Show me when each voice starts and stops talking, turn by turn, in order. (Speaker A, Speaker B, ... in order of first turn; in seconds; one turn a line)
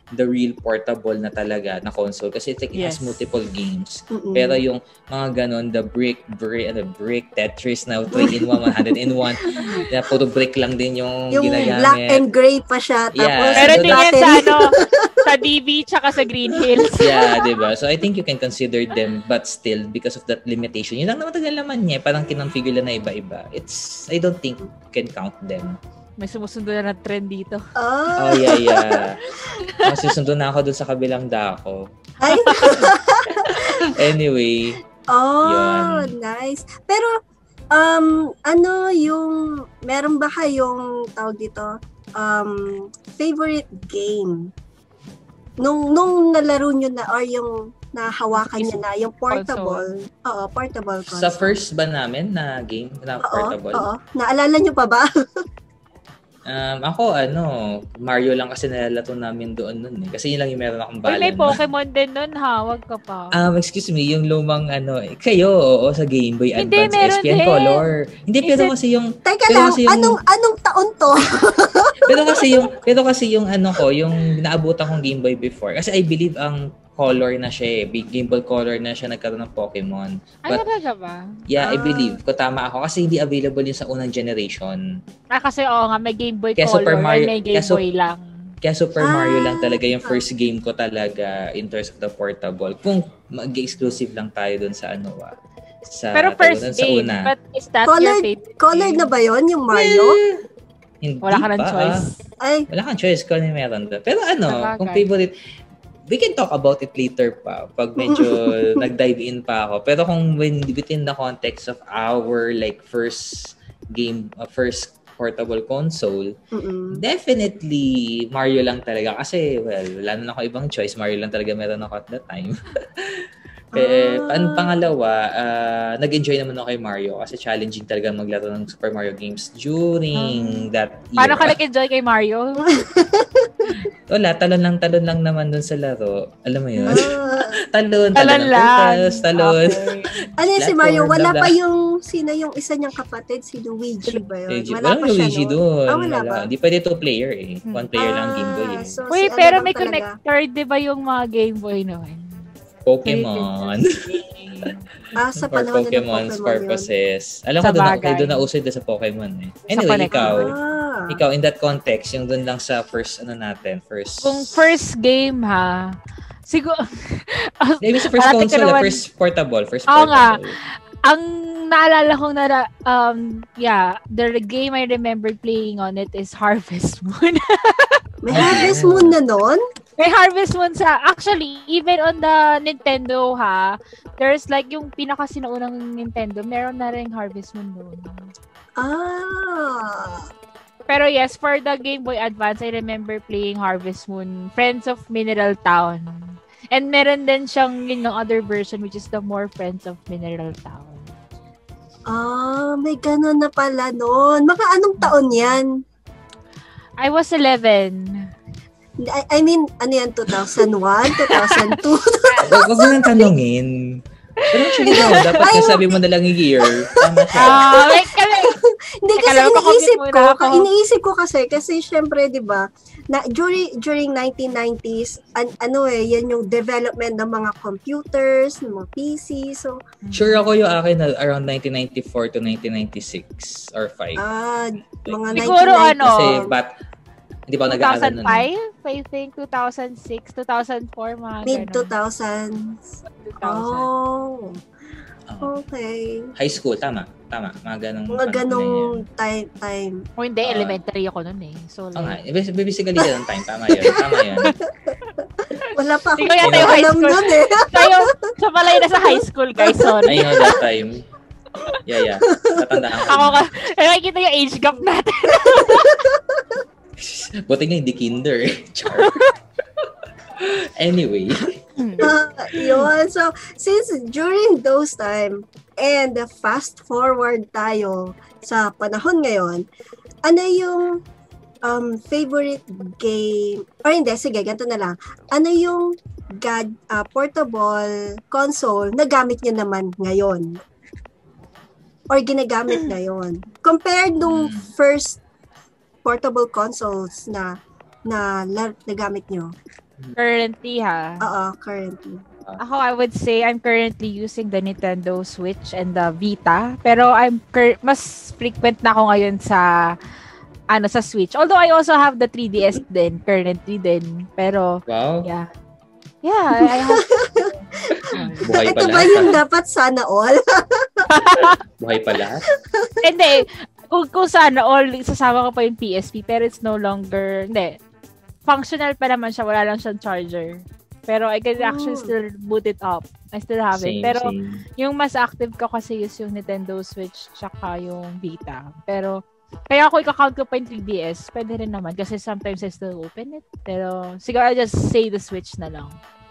Speaker A: 0.1-12.2
Speaker B: 2.7-3.2
Speaker C: 4.1-4.6
Speaker C: 8.1-9.2
Speaker B: 9.6-9.9
Speaker C: 11.3-15.2
Speaker A: 13.2-14.1
Speaker B: 13.6-14.7
Speaker B: 15.2-17.4
Speaker A: 17.0-25.8
Speaker B: 26.2-27.6
Speaker C: 27.8-29.0
Speaker A: 28.2-29.2
Speaker B: 29.3-29.9
Speaker A: 29.8-31.9
Speaker C: 32.2-33.6
Speaker B: 32.3-32.9
Speaker A: 32.5-34.8
Speaker C: 35.1-37.1
Speaker A: 35.4-36.1
Speaker C: 37.7-44.5
Speaker C: 45.6-51.6
Speaker B: 48.3-49.8
Speaker A: 51.0-53.9
Speaker C: 53.2-55.1
Speaker A: 56.5-61.6
Speaker B: 61.0-63.3
Speaker A: 63.3-70.2
Speaker B: 66.6-67.8
Speaker B: 68.4-68.7
Speaker C: 69.2-72.7
Speaker A: 72.0-80.6
Speaker B: 80.5-81.2
Speaker A: 81.5-84.8
Speaker C: 81.6-82.2
Speaker B: 85.3-88.3
Speaker A: 86.6-87.8
Speaker A: 88.6-95.3
Speaker C: 89.0-90.2
Speaker A: 95.8-97.3
Speaker B: 96.1-99.0
Speaker C: 97.9-100.2
Speaker A: 99.7-100.4
Speaker A: 101.0-102.1
Speaker B: 101.2-102.2
Speaker C: 102.4-102.7
Speaker A: 102.7-105.3
Speaker B: 104.5-105.0
Speaker A: 106.1-116.3
Speaker C: 108.0-108.9
Speaker C: 116.5-117.0
Speaker A: 116.9-123.2
Speaker C: 123.7-124.8
Speaker A: 123.8-131.6
Speaker B: 131.2-132.8
Speaker C: 132.7-133.7
Speaker A: 133.6-137.1
Speaker C: 136.8-137.6
Speaker A: 137.7-139.8
Speaker B: 138.1-140.2
Speaker C: 140.4-146.5
Speaker A: 140.5-141.5
Speaker A: 144.5-149.0
Speaker C: 148.0-150.1
Speaker B: 149.1-152.4
Speaker A: 152.8-154.0
Speaker B: 153.0-154.8
Speaker C: 155.2-156.9
Speaker A: 155.4-160.5
Speaker B: 157.6-158.4
Speaker B: 159.7-160.5
Speaker C: 160.1-161.2
Speaker A: 161.1-164.7
Speaker B: 164.2-165.9
Speaker B: 166.5-169.0
Speaker A: 167.8-170.6
Speaker B: 169.9-170.4
Speaker B: 171.1-178.7
Speaker C: 178.2-179.6
Speaker A: 178.3-179.2
Speaker B: 180.0-188.1
Speaker C: 188.8-190.3
Speaker B: 190.9-201.1
Speaker C: 202.1-205.7
Speaker B: 207.0-208.3
Speaker C: 209.0-213.3
Speaker B: 210.6-212.4
Speaker A: 212.4-214.0
Speaker A: 214.5-217.7
Speaker B: 214.7-215.5
Speaker C: 214.9-216.0
Speaker C: 216.9-229.8
Speaker B: 217.3-218.6
Speaker B: 219.2-220.7
Speaker B: 230.0-230.5
Speaker A: 230.1-234.2
Speaker C: 234.2-236.5
Speaker A: 235.1-236.7
Speaker B: 235.3-236.5
Speaker A: 237.5-238.5
Speaker B: 237.7-241.9
Speaker C: 241.4-244.6
Speaker B: 243.0-243.9
Speaker A: 245.3-245.6
Speaker C: 245.4-246.3
Speaker A: 246.3-249.0
Speaker C: 248.1-250.0
Speaker B: 250.2-252.2
Speaker A: 250.4-250.8
Speaker A: 251.9-254.6
Speaker C: 253.8-254.2
Speaker B: 255.7-260.6
Speaker C: 255.7-258.1
Speaker A: 256.4-256.9
Speaker C: 258.7-260.6
Speaker A: 260.0-261.0
Speaker A: 261.8-263.4
Speaker C: 262.3-262.8
Speaker B: 263.1-266.1
Speaker C: 265.3-266.6
Speaker A: 267.0-269.3
Speaker B: 269.0-269.3
Speaker A: 270.4-271.6
Speaker B: 271.8-272.1
Speaker C: 272.0-279.6
Speaker C: 280.2-281.0
Speaker C: 281.6-290.6
Speaker C: 292.1-295.2
Speaker A: 294.2-294.7
Speaker C: 296.0-299.5
Speaker B: 300.1-301.2
Speaker C: 301.2-302.2
Speaker B: 302.6-309.7
Speaker B: 310.7-315.5
Speaker A: 314.9-315.3
Speaker B: 316.2-318.5
Speaker C: 316.6-317.5
Speaker A: 317.9-319.4
Speaker C: 318.2-321.1
Speaker B: 321.1-321.6
Speaker A: 321.8-322.4
Speaker C: 322.6-323.4
Speaker B: 323.0-327.8
Speaker B: 328.4-346.0
Speaker C: 331.6-332.1
Speaker A: 333.7-334.6